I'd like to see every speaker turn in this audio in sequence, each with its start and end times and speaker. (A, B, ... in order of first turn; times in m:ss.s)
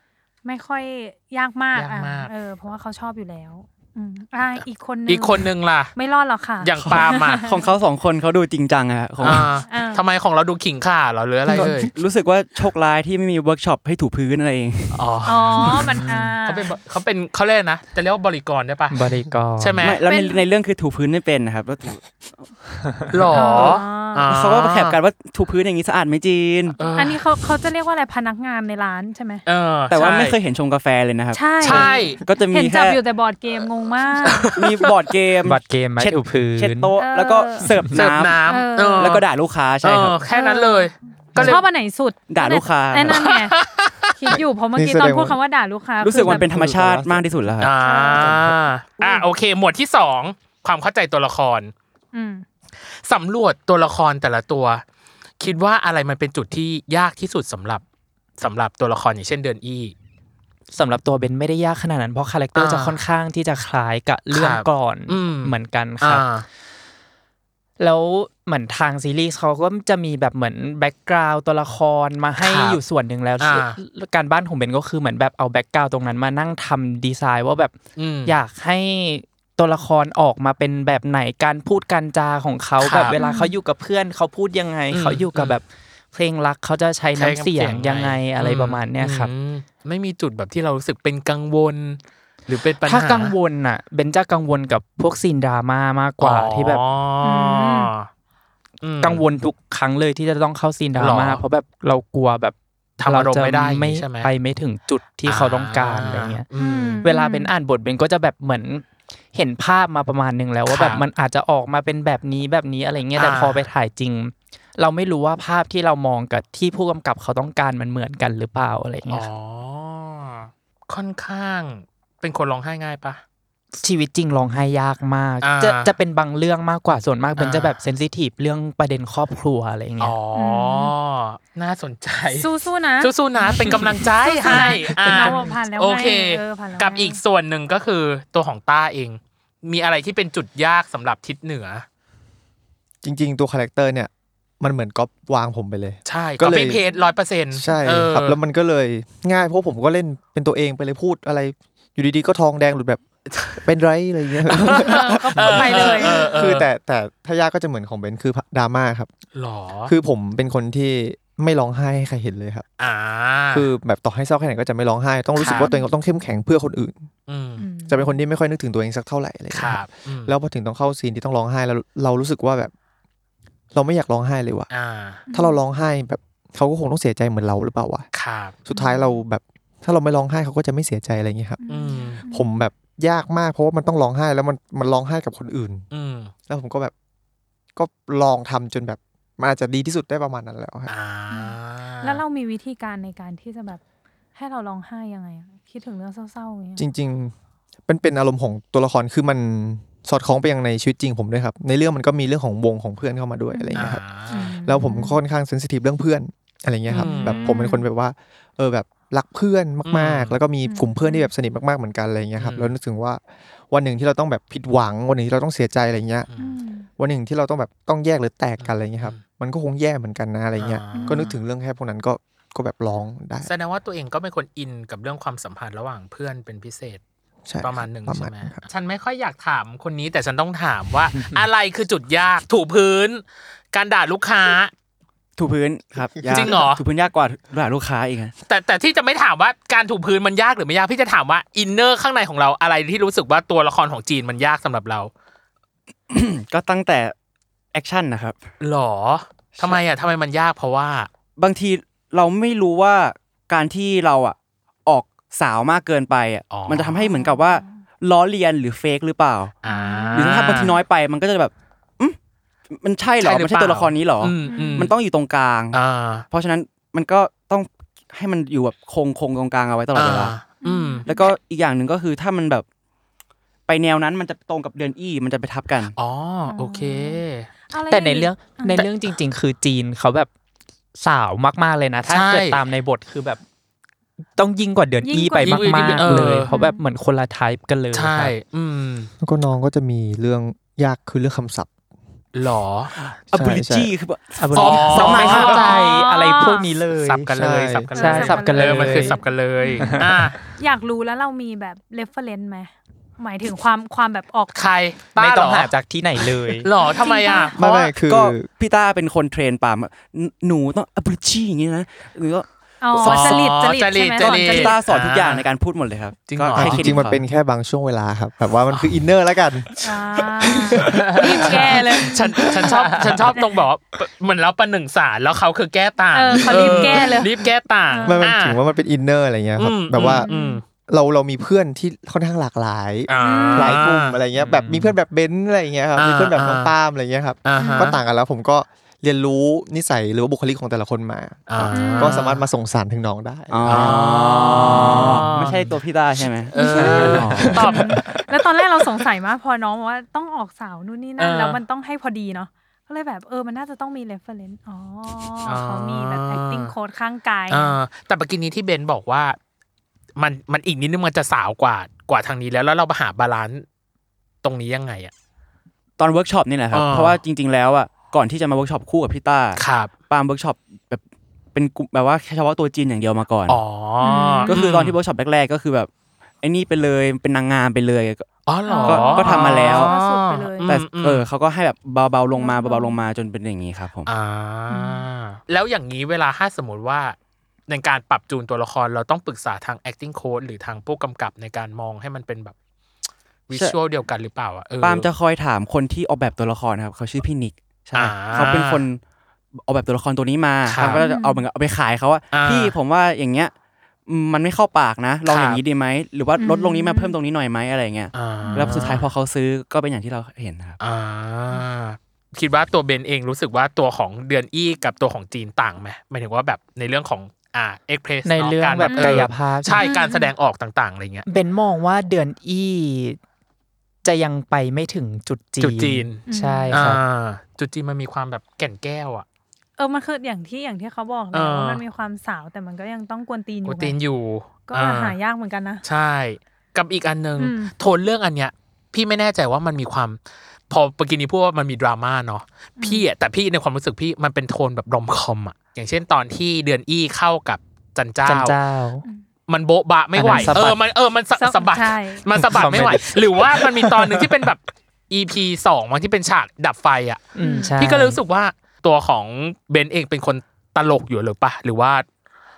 0:00.4-0:07.7 A
0:01.7-0:02.3 B
0:05.1-0:05.9 B
0:06.6-0:07.5 B
0:07.4-0:09.6 C
0:09.2-0:11.9 B
0:09.7-0:10.0 A
0:11.5-0:11.8 D
0:11.6-0:15.7 C
0:14.9-0:19.0 B
0:15.2-0:16.8 A
0:16.0-0:16.3 E
0:18.9-0:19.8 E
0:19.6-0:20.0 B
0:19.8-0:22.5 C
0:20.0-0:20.4 A
0:23.1-0:25.0 B
0:23.3-0:24.3 A
0:23.5-0:26.8 C
0:26.8-0:27.2 B
0:26.8-0:29.4 A
0:29.4-0:30.4 B
0:29.9-0:33.0 C
0:31.3-0:34.6 A
0:31.6-0:32.2 B
0:34.2-0:34.9 B
0:34.5-0:38.4 C
0:35.4-0:36.9 E
0:37.0-0:37.8 A
0:37.9-0:39.2 B
0:38.4-0:39.2 A
0:39.0-0:40.2 C
0:39.8-0:41.6 B
0:40.3-0:43.6 A
0:42.3-0:43.3 C
0:43.1-0:44.3 B
0:44.2-0:46.5 A
0:44.3-0:45.4 D
0:46.0-0:47.7 C
0:46.1-0:47.6 D
0:47.6-0:51.7 B
0:47.8-0:48.4 A
0:48.2-0:48.6 D
0:49.0-0:49.3 A
0:52.1-0:52.4 A
0:53.0-0:54.8 B
0:55.4-0:57.8 B
0:58.4-0:59.9 B
1:00.7-1:06.2 E
1:02.5-1:03.0 B
1:04.3-1:06.4 B
1:07.8-1:17.7 E
1:12.4-1:12.8 B
1:13.4-1:13.8 B
1:18.0-1:18.4 B
1:18.2-1:29.3 E
1:22.8-1:23.2 B
1:23.1-1:23.6 A
1:24.9-1:25.6 B
1:27.2-1:33.3 B
1:32.8-1:36.8 E
1:36.2-1:38.1 B
1:37.2-1:37.9 A
1:38.8-1:39.2 B
1:39.0-1:46.4 E
1:41.0-1:41.4 B
1:43.0-1:44.3 B
1:45.2-1:47.0 B
1:46.6-1:47.5 A
1:47.0-1:59.3 E
1:50.7-1:51.0 B
1:53.2-1:53.6 B
1:59.1-2:03.2 B
2:03.8-2:10.1 E
2:05.4-2:05.9 B
2:07.4-2:07.8 B
2:10.0-2:12.5 B
2:10.3-2:10.9 A
2:12.3-2:17.2 A
2:13.0-2:21.8 B
2:23.0-2:26.8 D
2:26.1-2:28.4 B
2:27.5-2:39.1 D
2:33.3-2:33.6 B
2:34.6-2:36.7 B
2:34.6-2:36.4 A
2:39.3-2:39.9 B
2:39.9-2:42.6 D
2:42.8-2:43.7 B
2:43.5-2:47.0 D
2:45.4-2:45.7 B
2:45.4-2:45.9 A
2:47.3-2:47.6 B
2:47.6-2:48.2 A
2:47.9-2:52.7 D
2:49.5-2:50.3 B
2:53.7-2:54.7 D
2:54.7-2:55.2 B
2:55.3-2:55.6 A
2:55.3-2:58.0 D
2:58.1-2:58.6 B
2:58.7-3:01.6 D
2:58.7-2:59.2 A
3:01.6-3:02.5 A
3:01.7-3:02.2 B
3:02.3-3:05.8 D
3:05.9-3:06.3 B
3:06.5-3:06.9 D
3:07.8-3:10.9 D
3:10.9-3:12.2 B
3:11.3-3:13.8 A
3:14.3-3:16.8 A
3:16.8-3:17.3 D
3:17.9-3:36.3 D
3:23.5-3:25.2 A
3:23.8-3:24.6 B
3:26.9-3:27.5 B
3:26.9-3:27.8 A
3:29.8-3:30.4 B
3:30.6-3:31.3 A
3:32.4-3:32.7 B
3:36.3-3:36.6 B
3:36.4-3:36.9 A
3:37.0-3:43.5 D
3:38.6-3:39.2 B
3:40.6-3:41.3 B
3:40.9-3:41.3 A
3:43.4-3:47.0 B
3:47.4-3:48.6 D
3:47.6-3:54.7 B
3:55.4-3:58.3 C
3:56.2-3:56.6 D
3:56.3-3:56.8 B
3:58.5-4:05.1 B
4:06.1-4:07.1 C
4:07.7-4:08.4 C
4:08.6-4:11.1 B
4:11.4-4:19.5 C
4:16.5-4:17.0 B
4:17.0-4:17.8 A
4:19.6-4:20.8 B
4:19.6-4:20.7 A
4:20.1-4:22.2 C
4:22.7-4:25.8 C
4:23.2-4:24.9 B
4:24.4-4:24.9 A
4:25.7-4:26.2 B
4:26.3-4:30.4 C
4:29.9-4:31.0 B
4:30.6-4:31.3 A
4:31.0-4:32.6 C
4:33.7-4:35.9 C
4:36.0-4:37.5 B
4:36.4-4:38.9 A
4:37.9-4:40.3 E
4:41.0-4:43.4 E
4:42.1-4:42.6 B
4:44.4-4:48.3 E
4:45.0-4:46.8 A
4:45.4-4:46.5 B
4:47.9-4:49.1 B
4:49.2-4:51.7 D
4:52.3-4:53.0 B
4:53.3-4:55.7 C
4:53.3-4:53.9 D
4:54.4-4:57.3 E
4:54.5-4:55.8 B
4:55.3-4:56.7 A
4:57.0-5:00.4 B
4:57.3-4:57.9 D
4:57.9-5:04.7 A
4:58.0-4:59.2 E
4:59.8-5:00.0 E
5:04.5-5:05.7 B
5:05.2-5:06.7 E
5:06.6-5:07.6 B
5:06.8-5:07.6 A
5:07.6-5:08.5 D
5:07.6-5:13.6 C
5:12.8-5:14.8 A
5:13.0-5:15.4 B
5:14.2-5:17.2 C
5:16.3-5:17.0 B
5:16.5-5:22.7 D
5:19.8-5:23.6 A
5:20.7-5:28.6 B
5:26.1-5:27.4 A
5:26.4-5:27.2 D
5:27.9-5:28.2 A
5:28.0-5:30.3 D
5:29.6-5:30.6 B
5:30.0-5:30.6 A
5:30.9-5:44.0 D
5:33.1-5:34.2 B
5:33.2-5:33.8 A
5:34.4-5:34.9 E
5:36.0-5:36.7 B
5:37.4-5:38.0 B
5:37.6-5:38.0 A
5:41.5-5:42.4 B
5:41.7-5:42.2 A
5:43.5-5:47.8 C
5:43.6-5:45.7 B
5:46.5-5:57.8 A
5:46.5-5:48.1 B
5:51.2-5:51.6 B
5:55.4-5:56.7 B
5:57.5-5:59.4 B
6:00.2-6:03.6 B
6:04.4-6:05.1 B
6:06.0-6:11.0 C
6:06.7-6:07.2 B
6:09.6-6:09.9 B
6:11.5-6:13.6 C
6:13.5-6:15.0 B
6:14.0-6:14.6 A
6:14.5-6:15.9 C
6:16.4-6:18.3 C
6:18.5-6:21.3 B
6:18.6-6:20.7 A
6:18.8-6:19.9 C
6:20.6-6:24.1 C
6:22.4-6:23.0 A
6:24.1-6:27.2 B
6:24.7-6:25.0 A
6:27.7-6:32.5 B
6:33.5-6:35.1 B
6:34.8-6:39.0 C
6:37.9-6:38.8 B
6:39.6-6:43.5 C
6:40.6-6:41.0 B
6:41.0-6:41.5 A
6:42.3-6:42.7 B
6:44.1-6:50.8 C
6:45.2-6:45.6 B
6:46.4-6:47.1 A
6:48.1-6:49.1 B
6:48.4-6:48.8 A
6:50.8-7:01.2 B
6:58.2-6:59.9 E
6:58.8-7:00.3 A
7:01.2-7:03.2 E
7:04.0-7:07.0 E
7:05.6-7:09.2 B
7:06.3-7:06.8 A
7:09.8-7:14.0 A
7:11.3-7:11.8 B
7:13.6-7:15.2 B
7:14.6-7:15.8 A
7:15.8-7:20.2 B
7:17.4-7:17.7 A
7:20.7-7:28.6 B
7:22.8-7:23.0 A
7:28.2-7:29.0 E
7:29.5-7:42.0 B
7:30.1-7:30.8 E
7:30.2-7:30.6 A
7:31.4-7:32.2 A
7:32.4-7:33.2 E
7:37.3-7:38.2 E
7:37.4-7:37.8 A